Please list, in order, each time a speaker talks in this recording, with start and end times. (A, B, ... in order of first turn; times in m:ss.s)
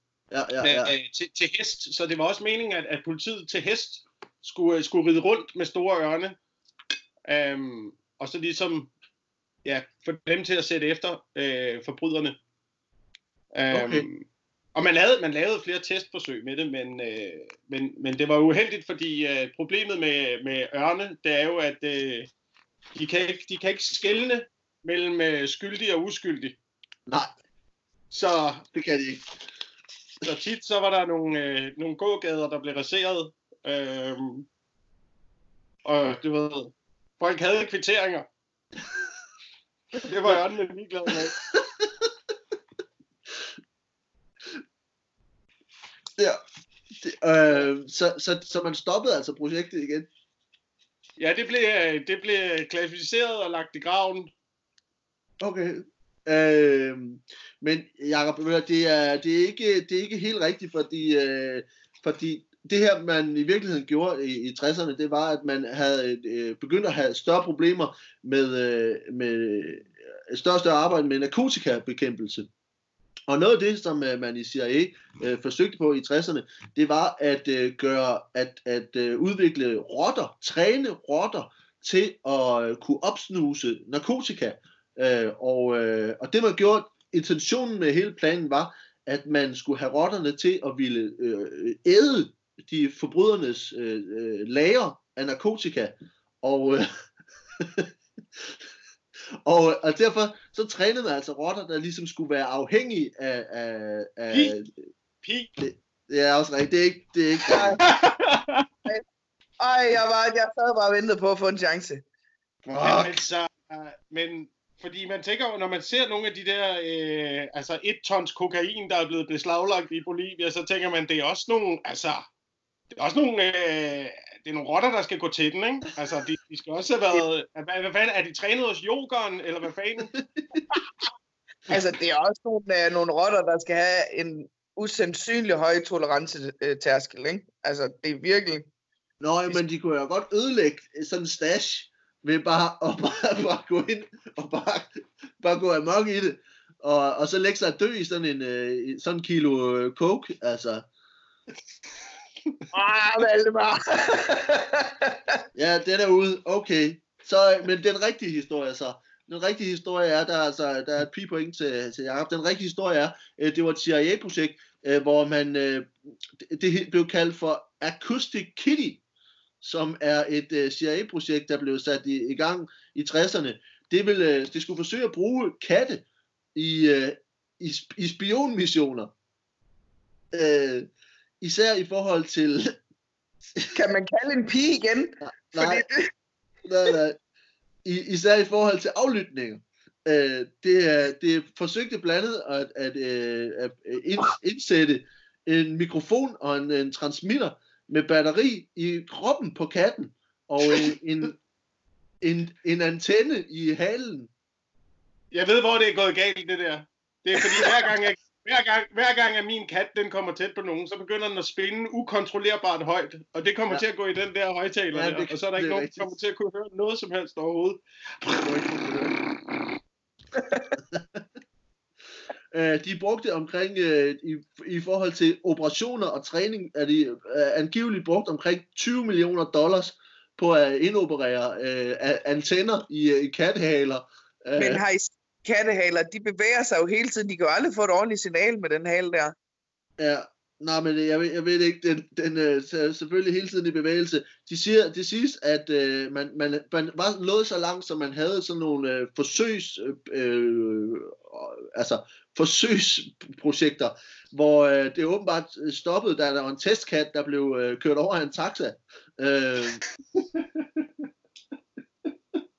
0:00.3-0:00.9 A
0:00.6-0:06.4 B
0:07.3-0:08.9 B
0:09.6-0:12.4 B
0:13.5-0:22.3 B
0:13.7-0:14.1 A
0:23.0-0:26.6 B
0:27.1-0:27.3 A
0:28.1-0:28.6 B
0:28.7-0:29.2 A
0:30.2-0:34.5 B
0:35.8-0:38.3 B
0:40.0-0:41.4 B
0:47.0-0:50.1 A
0:51.2-0:54.3 B
0:55.4-1:12.5 A
1:13.3-1:36.9 A
1:37.6-1:37.9 A
1:39.4-1:44.9 A
1:45.2-1:45.5 B
1:45.6-1:47.8 A
1:47.8-1:48.7 B
1:49.6-1:52.0 C
1:52.7-1:53.2 A
1:52.8-2:02.3 B
2:02.9-2:10.1 B
2:10.1-2:10.6 A
2:11.7-2:18.7 C
2:19.2-2:30.9 A
2:32.7-2:35.4 C
2:35.6-2:49.0 A
2:49.6-2:56.0 A
2:56.6-2:59.1 A
3:00.3-3:00.9 A
3:01.4-3:02.8 A
3:03.7-3:06.1 C
3:05.2-3:05.9 A
3:06.6-3:07.2 A
3:07.8-3:21.4 A
3:22.2-3:24.3 A
3:25.3-3:39.0 B
3:34.9-3:36.1 A
3:38.4-3:39.2 A
3:40.9-3:41.2 A
3:42.5-3:54.8 A
3:54.6-3:59.4 C
4:00.0-4:19.8 A
4:20.1-4:20.9 B